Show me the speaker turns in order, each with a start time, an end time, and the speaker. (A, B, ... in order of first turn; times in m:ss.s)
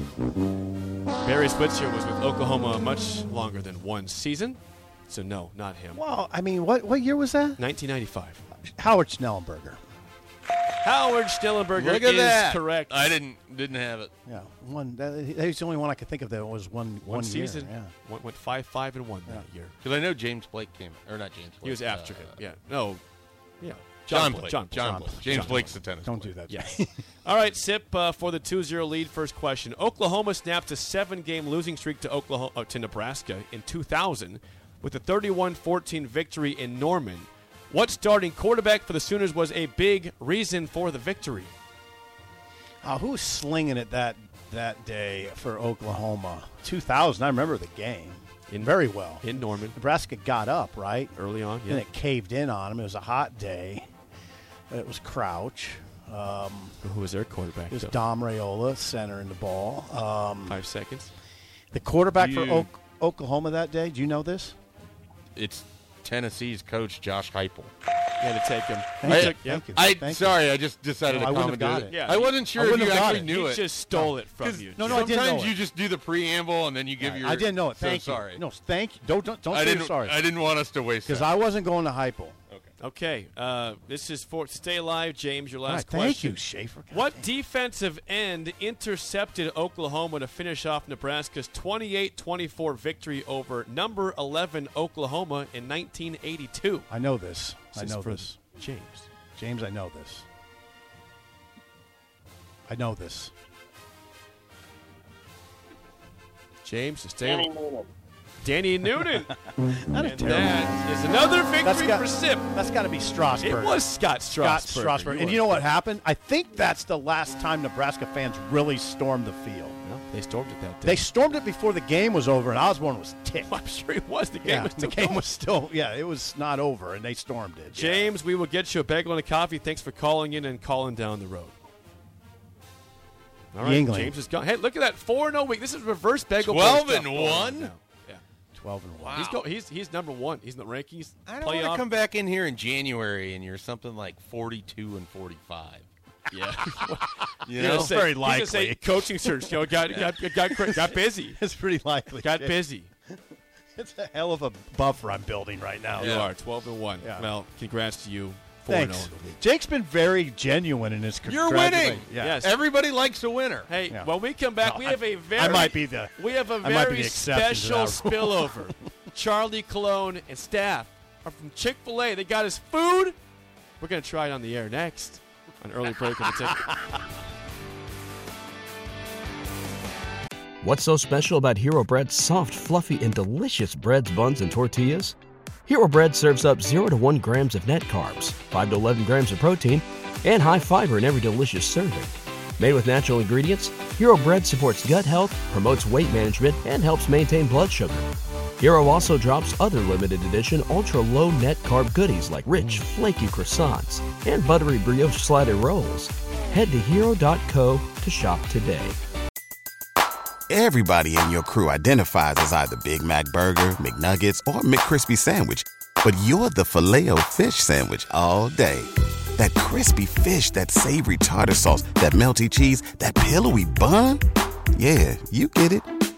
0:01.2-0:06.0 A
0:06.0-0:07.6 B
0:07.6-0:08.4 A
0:08.8-0:09.8 B
0:10.8-0:13.2 A
0:11.8-0:14.1 C
0:14.3-0:17.9 B
0:17.0-0:19.8 A
0:19.8-0:22.4 C
0:21.6-0:23.0 A
0:23.6-0:41.5 A
0:24.0-0:26.3 C
0:24.9-0:25.2 B
0:26.1-0:26.9 B
0:42.8-0:49.2 B
0:48.5-0:49.8 A
0:49.8-0:51.1 B
0:51.2-0:51.9 A
0:51.7-0:53.9 B
0:54.7-0:56.8 B
0:56.8-0:58.0 A
0:57.7-1:00.6 B
1:00.5-1:01.1 A
1:01.7-1:04.6 B
1:02.2-1:02.7 C
1:05.4-1:07.7 C
1:08.2-1:09.7 A
1:09.0-1:10.4 B
1:09.1-1:13.7 C
1:11.1-1:11.9 B
1:11.8-1:15.1 A
1:12.6-1:13.0 B
1:14.3-1:18.4 C
1:14.8-1:15.5 B
1:17.0-1:20.2 B
1:19.5-1:21.3 C
1:21.1-1:22.4 B
1:22.8-1:36.9 A
1:25.7-1:27.3 B
1:36.9-1:38.4 B
1:37.7-1:39.1 A
1:39.4-1:40.3 B
1:42.7-1:43.3 B
1:46.6-1:47.5 A
1:48.4-1:49.3 A
1:49.9-1:52.5 A
1:50.0-1:50.8 B
1:51.6-1:53.8 B
1:53.4-1:55.7 A
1:54.4-1:59.7 B
1:59.8-2:01.0 A
2:00.9-2:03.5 B
2:03.4-2:05.3 A
2:04.5-2:08.1 B
2:07.7-2:11.6 A
2:13.5-2:18.2 A
2:13.6-2:14.2 B
2:16.4-2:17.7 C
2:18.6-2:19.2 B
2:19.0-2:19.4 C
2:19.1-2:21.8 A
2:21.3-2:25.9 C
2:26.3-2:31.4 A
2:27.4-2:28.0 C
2:27.7-2:29.0 B
2:30.5-2:32.6 B
2:32.2-2:32.9 A
2:33.8-2:36.2 B
2:36.0-2:39.4 A
2:36.0-2:36.3 C
2:38.7-2:42.4 B
2:41.3-2:43.7 C
2:42.2-2:42.5 A
2:43.7-2:53.2 A
2:44.6-2:48.6 B
2:53.8-2:56.7 A
3:00.6-3:29.0 D
3:30.5-3:44.2 E
3:44.8-3:45.9 E